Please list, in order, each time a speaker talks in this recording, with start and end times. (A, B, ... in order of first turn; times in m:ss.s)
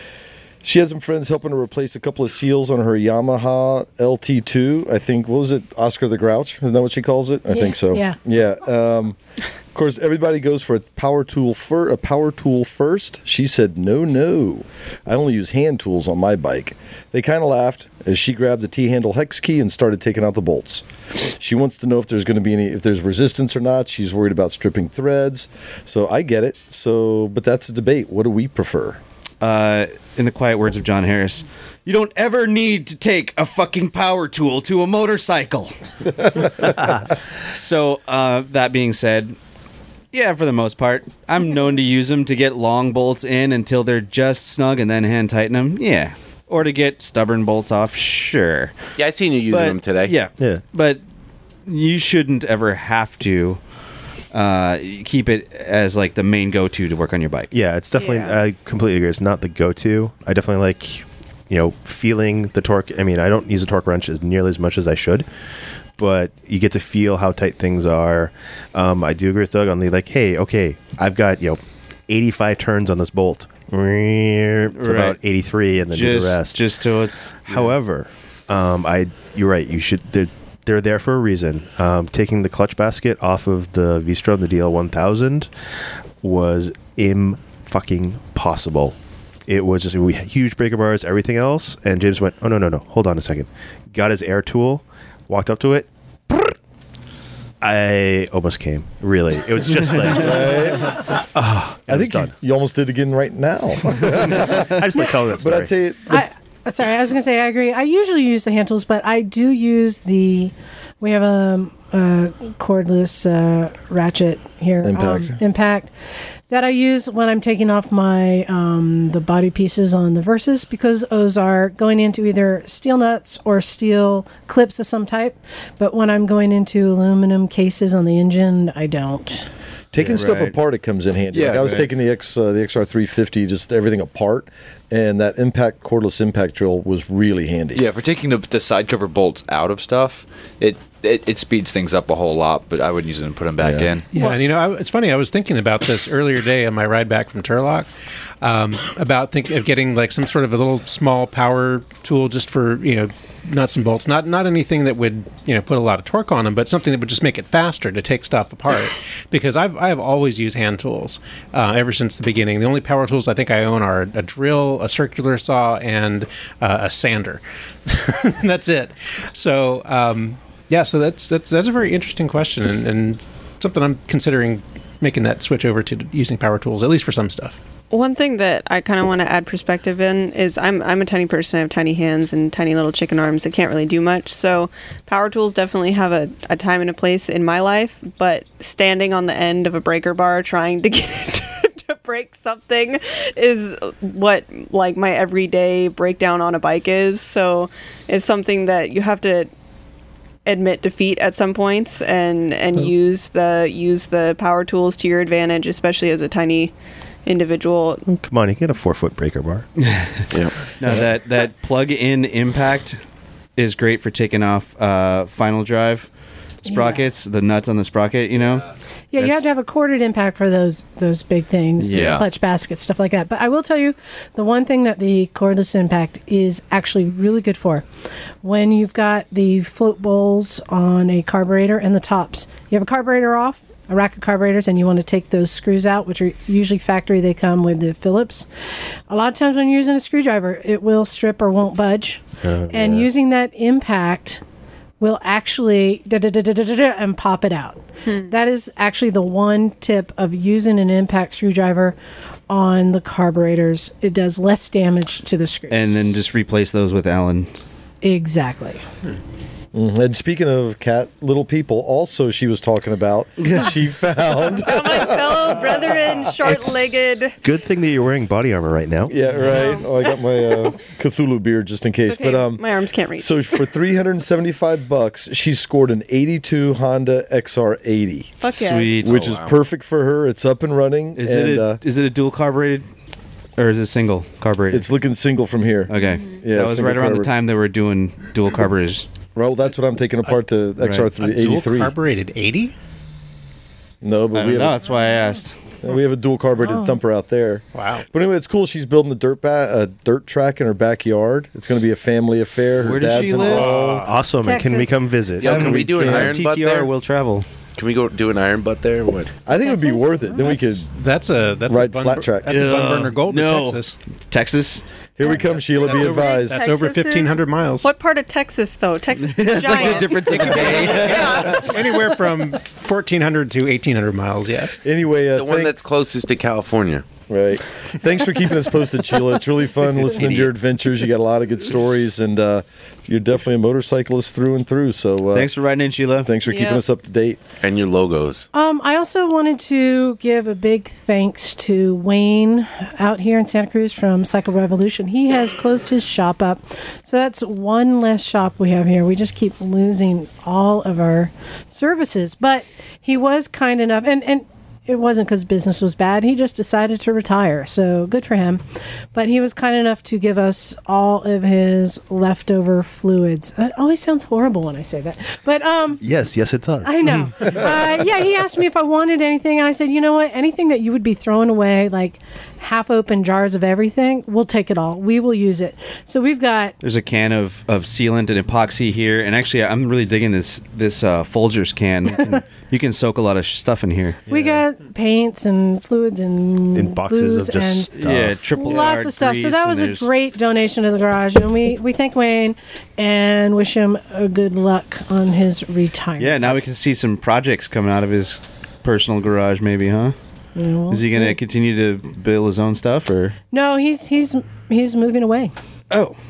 0:00.6-0:09.2 A
0:07.5-0:08.2 B
0:09.7-0:29.0 A
0:29.4-0:35.8 C
0:37.5-0:39.4 C
0:40.1-0:48.8 C
0:49.0-0:50.2 D
0:49.5-0:51.0 C
0:50.4-0:50.7 E
0:51.7-0:53.6 C
0:54.3-0:57.5 C
0:57.5-1:05.3 E
0:58.0-0:58.4 F
1:06.0-1:16.6 E
1:14.7-1:15.2 C
1:15.9-1:17.8 C
1:17.4-1:25.5 E
1:26.2-1:29.0 E
1:29.5-1:36.5 E
1:37.6-1:42.3 E
1:40.2-1:41.2 A
1:41.9-1:46.2 A
1:44.0-1:45.7 E
1:46.1-1:55.9 B
1:54.8-1:55.4 A
1:56.5-2:09.5 B
2:09.9-2:17.8 A
2:10.0-2:10.6 C
2:11.3-2:11.9 G
2:17.8-2:24.1 G
2:23.6-2:23.9 A
2:24.1-2:27.9 H
2:28.4-2:57.6 H
2:57.9-3:19.5 F
3:20.5-3:26.7 F
3:27.3-3:28.0 F
3:28.1-3:29.7 E
3:29.8-3:33.0 C
3:30.3-3:30.6 D
3:33.6-3:36.1 C
3:36.6-3:38.7 C
3:36.7-3:37.1 B
3:39.1-3:47.8 B
3:41.8-3:42.2 C
3:41.9-3:42.3 G
3:48.4-3:58.5 B
3:59.1-4:04.4 B
4:02.4-4:03.1 E
4:05.0-4:12.0 B
4:08.0-4:08.3 F
4:12.5-4:16.1 B
4:15.7-4:17.6 C
4:18.0-4:18.8 B
4:19.7-4:26.2 A
4:23.4-4:23.7 C
4:24.6-4:27.4 F
4:26.4-4:29.2 E
4:29.1-4:38.4 A
4:29.4-4:30.6 F
4:32.0-4:33.7 F
4:38.4-4:39.1 F
4:38.6-4:39.2 C
4:39.0-4:39.6 D
4:39.0-4:41.8 A
4:41.2-4:42.9 C
4:43.6-4:44.8 C
4:44.7-4:47.3 A
4:45.9-4:49.0 C
4:49.4-4:51.9 A
4:50.8-4:51.1 C
4:51.2-4:52.7 H
4:54.0-4:54.8 A
4:54.3-4:55.5 C
4:55.8-5:04.1 A
4:56.6-4:57.0 B
4:57.7-4:58.1 H
5:02.8-5:03.8 C
5:03.3-5:04.1 H
5:03.8-5:06.3 E
5:04.4-5:05.0 B
5:05.4-5:06.9 D
5:05.4-5:07.5 C
5:05.6-5:06.3 A
5:07.8-5:09.4 D
5:09.4-5:10.9 A
5:09.5-5:10.5 B
5:10.4-5:14.0 H
5:11.7-5:12.6 A
5:12.5-5:14.8 C
5:15.2-5:16.6 A
5:15.2-5:17.9 H
5:15.9-5:21.9 F
5:19.2-5:21.7 C
5:20.5-5:24.8 H
5:24.8-5:25.8 A
5:25.3-5:27.1 D
5:27.3-5:35.5 A
5:35.3-5:36.3 C
5:36.2-5:37.4 A
5:36.4-5:36.8 F
5:37.6-5:38.5 D
5:38.5-6:06.0 B
6:06.0-6:07.8 E
6:06.8-6:16.8 B
6:16.8-6:24.2 C
6:24.3-6:24.6 E
6:24.3-6:28.0 B
6:26.7-6:28.9 E
6:27.9-6:30.1 C
6:28.5-6:36.6 B
6:36.2-6:40.2 C
6:40.6-6:41.4 B
6:40.9-6:43.4 C
6:43.5-6:45.5 B
6:45.9-6:46.2 C